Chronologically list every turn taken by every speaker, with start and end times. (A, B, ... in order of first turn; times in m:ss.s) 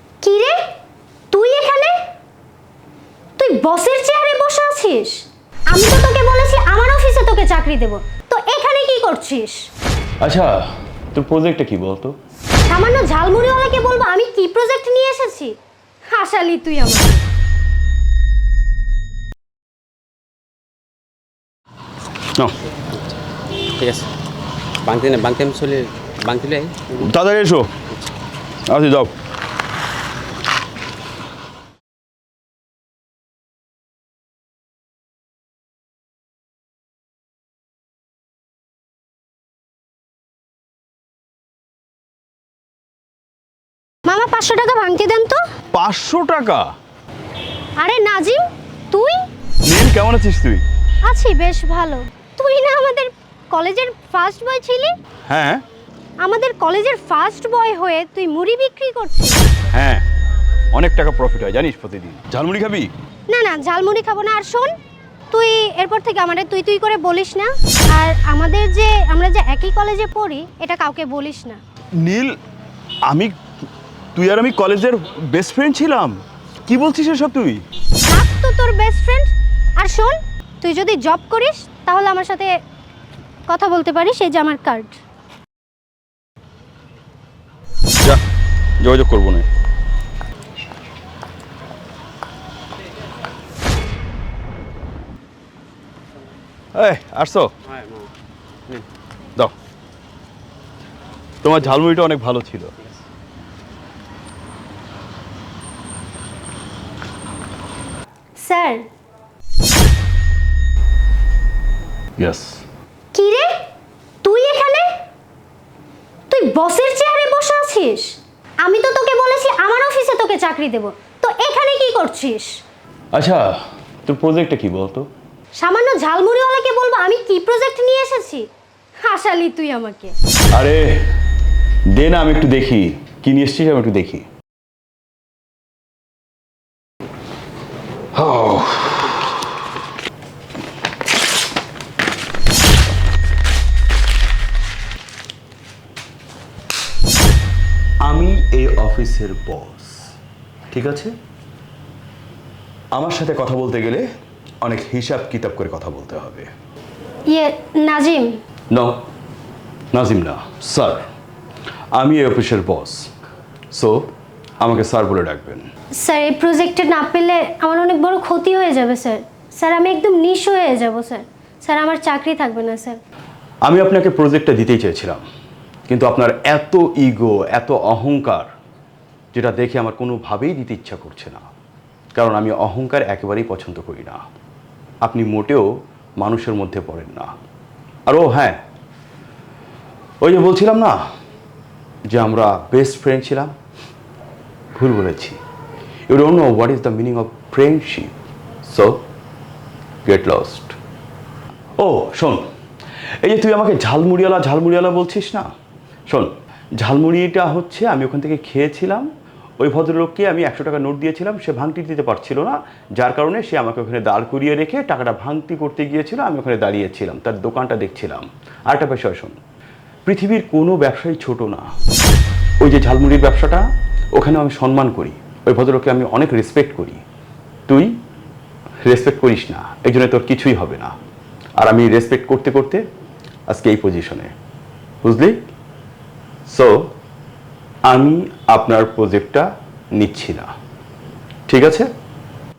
0:00.2-0:00.6 A
0:01.3-0:02.0 A
0:03.4-0:09.7 A
0:10.2-0:12.2 B
0:12.7-0:15.6 A
0:16.1-0:17.2 A
0:23.8-0:24.1 C
0:24.8-0:26.9 C
0:27.0-0:27.7 B
0:28.7-0:29.1 B
0:44.1-0:45.4 A
0:45.7-0:46.6 B
0:47.8-0:49.2 A
0:49.7-0:50.6 B
0:51.1-0:55.0 A
0:55.3-0:55.6 B
0:56.2-0:59.4 A
0:59.7-1:00.0 B
1:00.7-1:02.9 B
1:03.3-1:04.7 A
1:05.3-1:11.6 A
1:12.0-1:12.4 B
1:13.1-1:13.4 B
1:14.2-1:17.6 B
1:18.1-1:22.5 A
1:23.5-1:25.0 A
1:28.8-1:29.5 B
1:36.8-1:37.5 B
1:41.4-1:42.7 B
1:48.4-1:48.9 A
1:52.2-1:52.6 B
1:53.1-1:53.5 A
1:54.2-1:54.9 A
1:56.3-2:02.5 A
2:03.1-2:03.5 B
2:04.0-2:05.1 B
2:05.6-2:08.5 A
2:09.0-2:10.2 A
2:10.5-2:11.1 B
2:11.9-2:14.3 B
2:18.2-2:19.0 B
2:28.0-2:30.1 B
2:30.7-2:31.1 B
2:32.9-2:34.0 B
2:34.6-2:36.5 B
2:37.3-2:38.4 A
2:38.7-2:39.0 B
2:39.9-2:41.0 B
2:41.9-2:43.1 B
2:43.7-2:44.1 B
2:44.6-2:45.6 B
2:46.0-2:53.0 A
2:53.6-2:55.2 B
2:55.9-2:58.5 B
2:59.3-3:01.4 B
3:02.2-3:04.2 B
3:05.0-3:05.7 B
3:06.2-3:07.3 B
3:08.1-3:08.6 B
3:10.2-3:11.0 B
3:12.1-3:13.5 B
3:14.8-3:15.4 B
3:16.1-3:18.1 B
3:18.7-3:19.0 B
3:20.0-3:20.8 B
3:21.8-3:22.4 B
3:23.2-3:25.5 B
3:26.1-3:29.1 B
3:29.6-3:39.4 B
3:40.1-3:41.7 B
3:42.6-3:47.0 B
3:48.8-3:50.9 B
3:51.6-3:52.8 B
3:53.5-3:54.3 B
3:55.0-3:55.4 B
3:56.5-3:56.9 B
3:57.9-4:00.5 B
4:01.5-4:01.9 B